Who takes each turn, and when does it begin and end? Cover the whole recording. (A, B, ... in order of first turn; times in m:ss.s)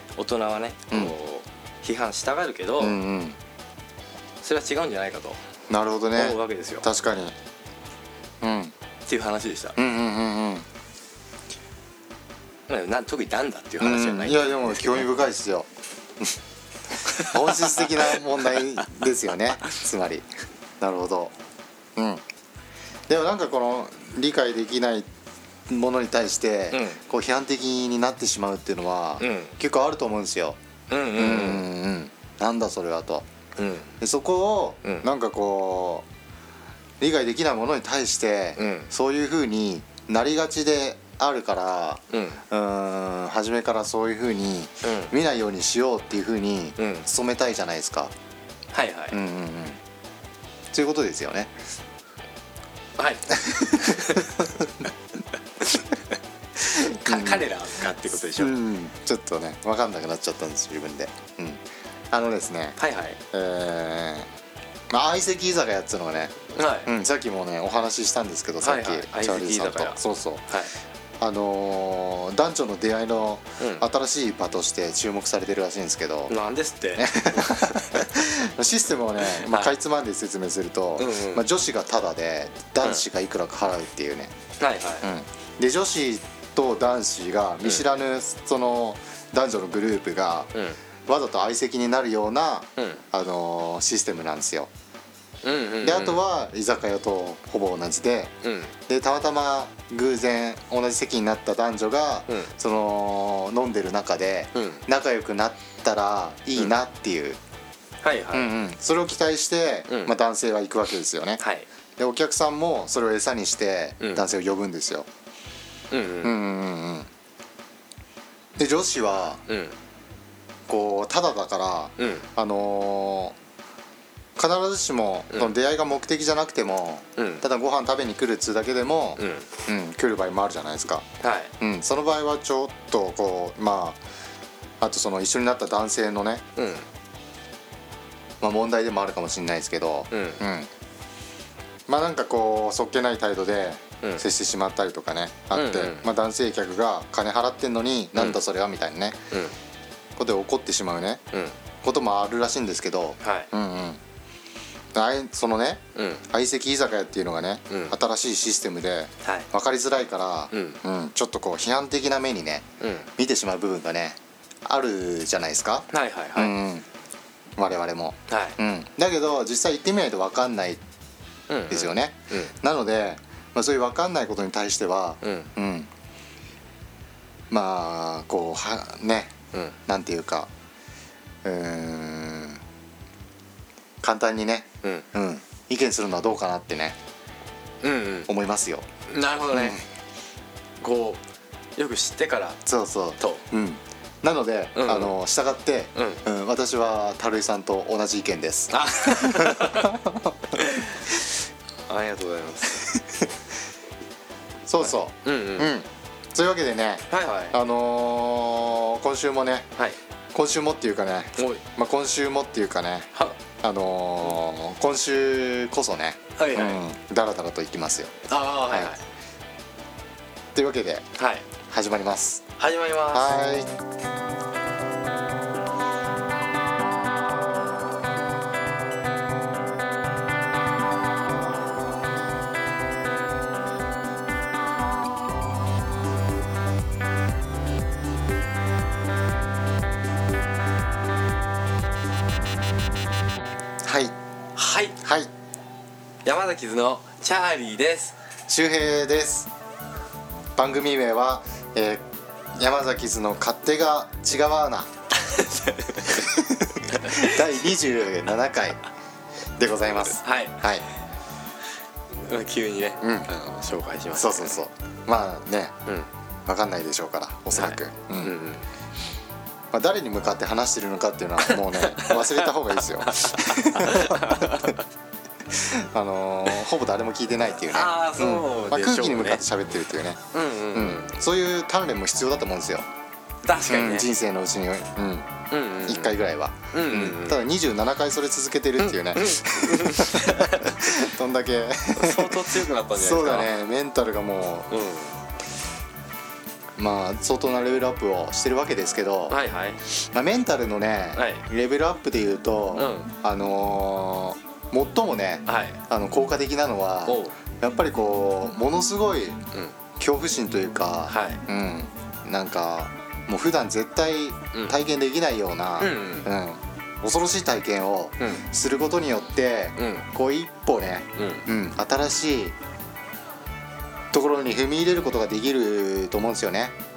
0:00.2-0:03.0 A
0:02.8-0:03.4 B
0:04.4-0:05.4 A
0:05.7-0:07.4 B
0:06.1-0:06.9 A
0:08.4-0:08.7 B
0:09.0-0:09.8 A
0:09.8-0:10.6 B
0:12.7-0:15.1 A
0:13.8-0:15.7 B
0:17.1-0:18.0 A
0:17.1-0:20.3 B
0:20.8-0:21.3 B
0:22.0-0:22.2 B
0:23.1-0:25.1 B
0:25.7-0:30.6 B
0:26.7-0:27.0 A
0:29.2-0:29.5 A
0:30.9-0:31.7 A
0:31.2-0:33.2 B
0:33.6-0:33.9 A
0:34.0-0:36.0 B
0:37.0-0:48.1 B
0:38.6-0:38.9 A
0:42.1-0:42.4 A
0:44.8-0:45.1 A
0:46.8-0:47.1 A
0:48.7-0:49.2 A
0:49.1-0:49.8 B
0:50.7-0:51.5 B
0:53.0-0:54.4 A
0:53.4-0:54.5 B
0:56.7-0:58.6 A
0:56.7-0:57.5 B
0:58.4-1:02.8 B
1:02.8-1:03.2 A
1:03.3-1:04.3 B
1:04.9-1:10.4 B
1:06.5-1:06.9 A
1:08.6-1:10.7 A
1:11.2-1:16.3 B
1:13.6-1:13.8 A
1:16.3-1:18.0 A
1:17.0-1:24.3 B
1:19.3-1:19.7 A
1:21.0-1:21.4 A
1:24.6-1:25.1 A
1:25.0-1:30.5 B
1:31.1-1:34.7 B
1:32.8-1:33.0 A
1:35.4-1:36.2 A
1:35.8-1:38.3 B
1:38.4-1:38.7 A
1:38.9-1:47.4 B
1:44.5-1:44.8 A
1:48.0-1:48.5 A
1:48.3-1:51.4 B
1:49.9-1:50.2 A
1:51.4-1:51.7 A
1:52.0-1:55.1 B
1:54.0-1:54.3 A
1:55.9-1:56.4 A
1:56.2-1:57.1 B
1:58.6-1:59.4 B
1:59.5-1:59.8 A
2:00.7-2:03.4 B
2:02.0-2:02.3 A
2:04.4-2:11.0 B
2:07.2-2:07.4 A
2:09.2-2:09.5 A
2:11.2-2:11.5 A
2:11.6-2:14.0 B
2:14.8-2:16.4 B
2:16.6-2:16.9 A
2:18.4-2:20.7 B
2:20.1-2:20.4 A
2:21.9-2:29.2 B
2:25.5-2:26.1 A
2:30.2-2:31.2 B
2:31.8-2:34.0 B
2:33.2-2:33.5 A
2:34.9-2:46.8 B
2:35.9-2:36.2 A
2:37.7-2:38.0 A
2:39.2-2:39.5 A
2:40.5-2:40.8 A
2:42.8-2:43.1 A
2:45.9-2:46.5 A
2:47.6-2:50.8 B
2:48.3-2:48.6 A
2:51.5-2:52.5 A
2:51.7-2:55.9 B
2:55.2-2:55.5 A
2:57.5-2:59.3 B
2:59.9-3:00.5 B
3:01.4-3:02.6 B
3:04.0-3:07.0 B
3:07.8-3:08.3 A
3:08.3-3:08.9 B
3:09.1-3:09.8 A
3:09.5-3:09.8 B
3:10.8-3:11.2 A
3:11.8-3:12.6 A
3:12.6-3:20.6 B
3:13.2-3:13.4 A
3:14.7-3:15.2 A
3:15.9-3:16.2 A
3:18.7-3:20.0 A
3:20.6-3:21.0 A
3:21.9-3:22.8 A
3:24.7-3:29.7 B
3:24.8-3:25.7 A
3:27.1-3:27.6 A
3:30.3-3:38.1 B
3:31.4-3:31.6 A
3:36.4-3:36.8 A
3:38.3-3:39.0 A
3:40.5-3:41.1 B
3:41.2-3:41.4 A
3:41.7-3:42.4 B
3:42.6-3:43.3 A
3:43.1-3:43.7 B
4:03.8-4:04.1 B
4:04.6-4:05.0 A
4:05.0-4:05.3 B
4:06.2-4:08.2 A
4:08.5-4:09.5 B
4:10.6-4:12.0 B
4:12.5-4:14.9 B
4:15.2-4:16.3 A
4:16.1-4:18.8 B
4:16.9-4:17.4 A
4:19.6-4:20.8 B
4:20.2-4:20.6 A
4:22.2-4:24.6 A
4:23.0-4:23.3 B
4:24.1-4:25.7 B
4:26.4-4:28.3 B
4:27.5-4:28.6 A
4:29.7-4:34.7 B
4:31.5-4:34.8 A
4:35.5-4:42.8 B
4:37.7-4:39.4 A
4:40.3-4:41.2 A
4:43.4-4:44.1 A
4:43.6-4:45.3 B
4:45.5-4:46.2 A
4:45.8-4:54.7 B
4:46.7-4:47.4 A
4:48.8-4:50.9 A
4:51.9-4:53.5 A
4:54.7-4:55.2 A
4:56.8-4:59.4 B
4:59.3-4:59.8 A
4:59.9-5:09.4 B
5:01.1-5:01.4 A
5:02.7-5:03.1 A
5:05.4-5:05.8 A
5:07.0-5:07.4 A
5:10.0-5:22.6 B
5:11.1-5:11.4 A
5:15.8-5:16.3 A
5:18.2-5:18.5 A
5:19.8-5:20.1 A
5:21.2-5:21.4 A
5:24.1-5:26.7 B